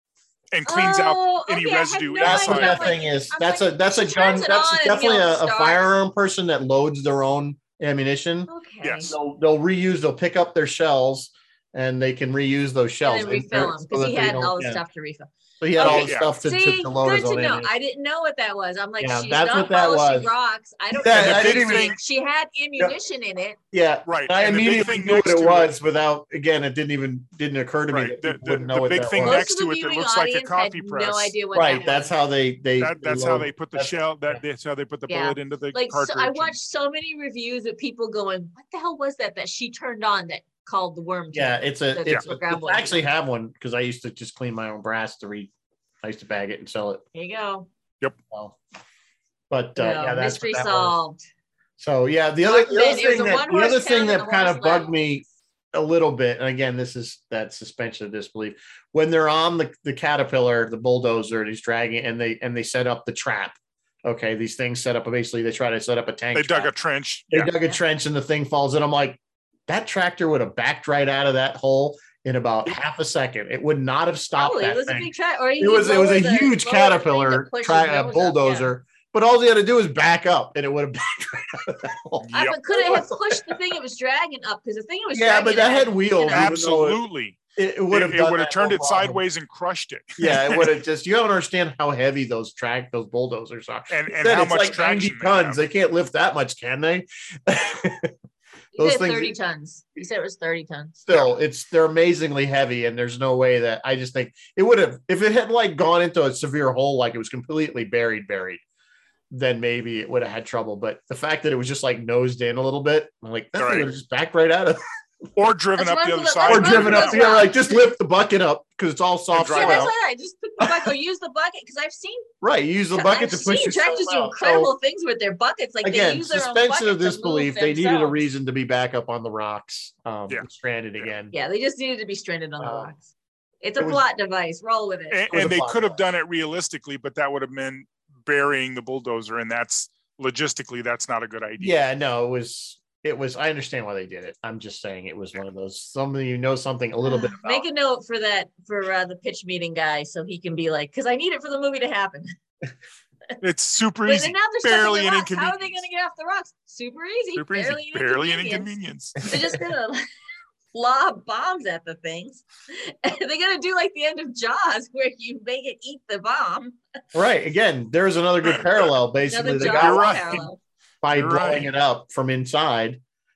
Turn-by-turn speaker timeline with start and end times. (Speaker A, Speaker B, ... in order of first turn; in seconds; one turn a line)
Speaker A: 0.5-3.0
Speaker B: 0.7-5.9
Speaker C: 2.2-8.5
Speaker B: 8.5-9.1
Speaker A: 8.8-9.1
Speaker C: 9.0-14.8
Speaker B: 13.0-23.6
Speaker C: 15.6-17.7
Speaker A: 15.8-16.3
Speaker C: 19.0-20.3
Speaker C: 20.9-21.9
Speaker A: 21.1-22.0
Speaker C: 23.7-29.5
Speaker A: 24.1-25.7
Speaker A: 27.9-31.3
Speaker B: 29.2-32.1
Speaker C: 31.5-34.4
Speaker A: 32.8-36.6
Speaker B: 35.1-43.0
Speaker C: 41.3-45.5
Speaker C: 46.0-47.0
Speaker B: 47.1-47.7
Speaker C: 48.3-48.6
Speaker C: 49.5-51.0
Speaker B: 49.8-51.2
Speaker C: 51.8-66.7
Speaker B: 52.5-54.9
Speaker A: 66.3-67.5
Speaker C: 67.3-83.6
Speaker B: 74.4-78.7
Speaker A: 82.2-82.6
Speaker B: 82.3-86.5
Speaker C: 85.1-87.0
Speaker A: 86.3-87.4
Speaker C: 87.6-89.2
Speaker A: 87.9-90.8
Speaker C: 90.2-98.1
Speaker A: 93.9-95.6
Speaker C: 98.8-99.3
Speaker B: 98.8-101.1
Speaker C: 101.1-108.6
Speaker C: 109.3-114.8
Speaker A: 113.6-113.9
Speaker A: 115.3-117.5
Speaker B: 115.8-117.9
Speaker C: 116.5-119.9
Speaker A: 119.3-119.9
Speaker B: 119.5-122.3
Speaker C: 120.6-120.9
Speaker C: 122.4-124.7
Speaker B: 122.9-128.2
Speaker C: 125.8-131.3
Speaker B: 131.3-133.1
Speaker C: 132.6-132.9
Speaker B: 133.6-135.2
Speaker C: 133.8-134.1
Speaker A: 135.1-141.8
Speaker C: 135.3-136.0
Speaker C: 141.6-147.7
Speaker B: 147.0-152.3
Speaker A: 153.4-155.8
Speaker B: 154.1-160.1
Speaker A: 157.4-159.3
Speaker B: 160.7-166.8
Speaker C: 167.1-170.4
Speaker B: 169.3-170.6
Speaker A: 169.6-170.5
Speaker C: 171.0-173.0
Speaker A: 171.1-171.7